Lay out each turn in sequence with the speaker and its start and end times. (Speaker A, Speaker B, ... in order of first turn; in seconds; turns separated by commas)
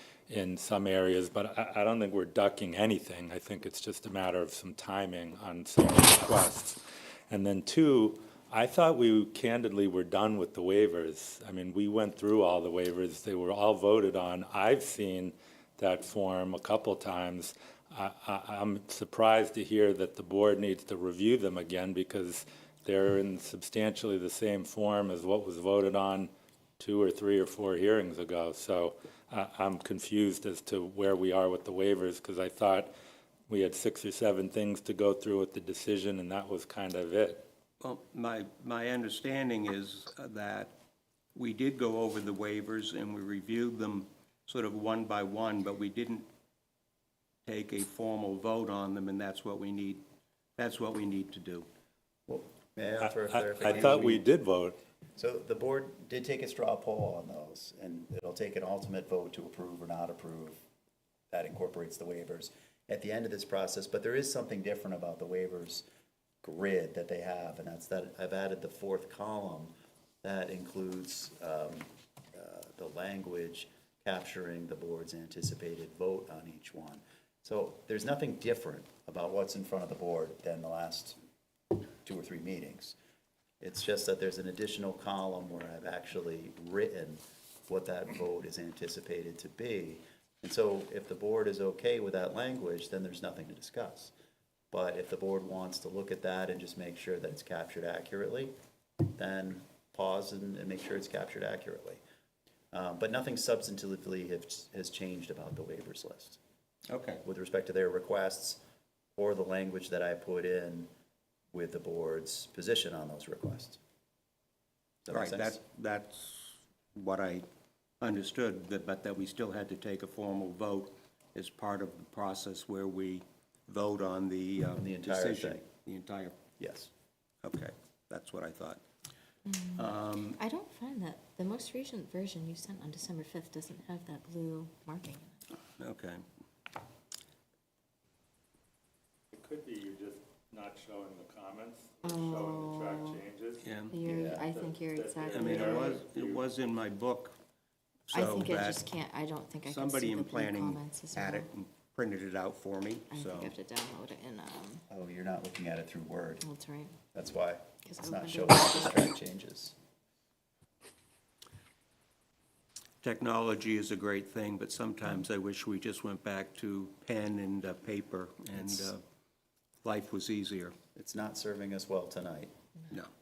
Speaker A: 0.3-32.9, Speaker A: 33.5-37.5, Speaker B: 37.8-40.7, Speaker B: 41.3-46.3, Speaker B: 47.5-50.0, Speaker B: 50.6-51.7, Speaker C: 52.3-54.3, Speaker A: 53.0-54.8, Speaker C: 55.1-60.6, Speaker C: 61.3-65.9, Speaker C: 66.4-81.2, Speaker C: 82.0-83.0, Speaker C: 83.6-94.1, Speaker C: 94.7-98.5, Speaker C: 99.1-102.0, Speaker C: 102.7-106.4, Speaker B: 106.9-107.2, Speaker C: 107.2-108.6, Speaker C: 109.2-110.9, Speaker C: 111.5-113.8, Speaker C: 115.0-115.6, Speaker B: 115.1-117.5, Speaker B: 118.0-126.4, Speaker C: 124.8-125.6, Speaker C: 126.6-126.9, Speaker B: 127.4-128.8, Speaker D: 129.4-135.4, Speaker B: 129.8-130.4, Speaker B: 135.8-136.2, Speaker A: 139.3-143.7, Speaker D: 142.0-143.2, Speaker B: 143.6-143.9, Speaker D: 143.9-146.0, Speaker C: 144.1-144.5, Speaker A: 144.5-146.4, Speaker B: 145.3-147.3, Speaker B: 148.1-148.8, Speaker D: 148.1-151.5, Speaker B: 149.7-153.5, Speaker D: 153.1-154.8, Speaker C: 154.9-156.4, Speaker D: 156.4-156.9, Speaker C: 157.1-159.8, Speaker D: 157.8-159.1, Speaker B: 163.0-169.0, Speaker B: 169.8-170.8, Speaker C: 170.9-172.5